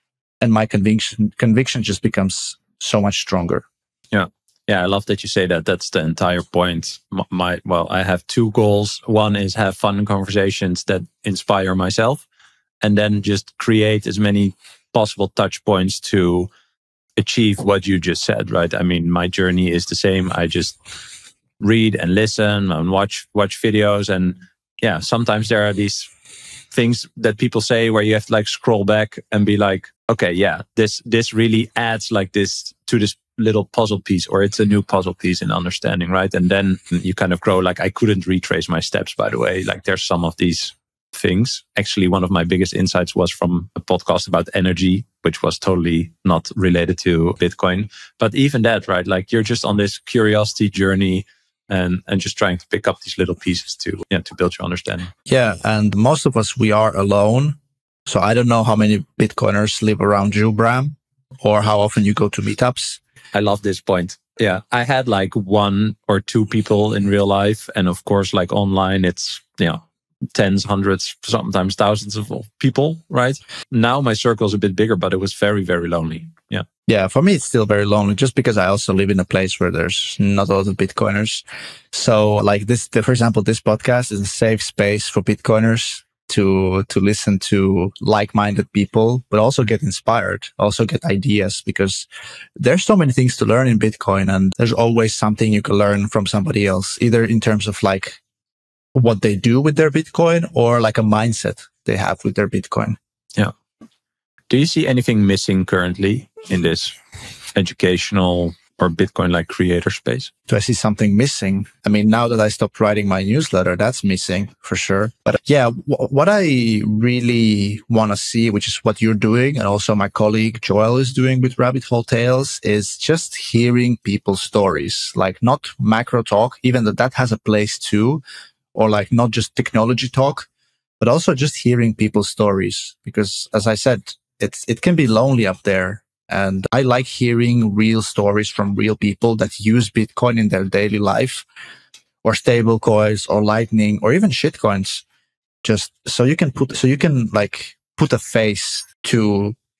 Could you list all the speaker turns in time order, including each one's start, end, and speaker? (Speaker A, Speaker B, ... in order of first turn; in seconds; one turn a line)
Speaker A: 0.4-3.6
Speaker B: 4.1-12.2
Speaker B: 12.8-16.5
Speaker B: 17.2-20.8
Speaker B: 21.6-26.1
Speaker B: 26.7-55.1
Speaker A: 55.3-63.0
Speaker B: 63.3-69.8
Speaker B: 70.3-76.7
Speaker A: 76.9-92.0
Speaker A: 92.6-98.2
Speaker A: 98.9-103.0
Speaker B: 104.5-107.0
Speaker B: 107.5-110.3
Speaker A: 110.5-128.2
Speaker A: 128.7-130.5
Speaker A: 131.0-141.4
Speaker A: 142.2-145.0
Speaker A: 145.6-149.5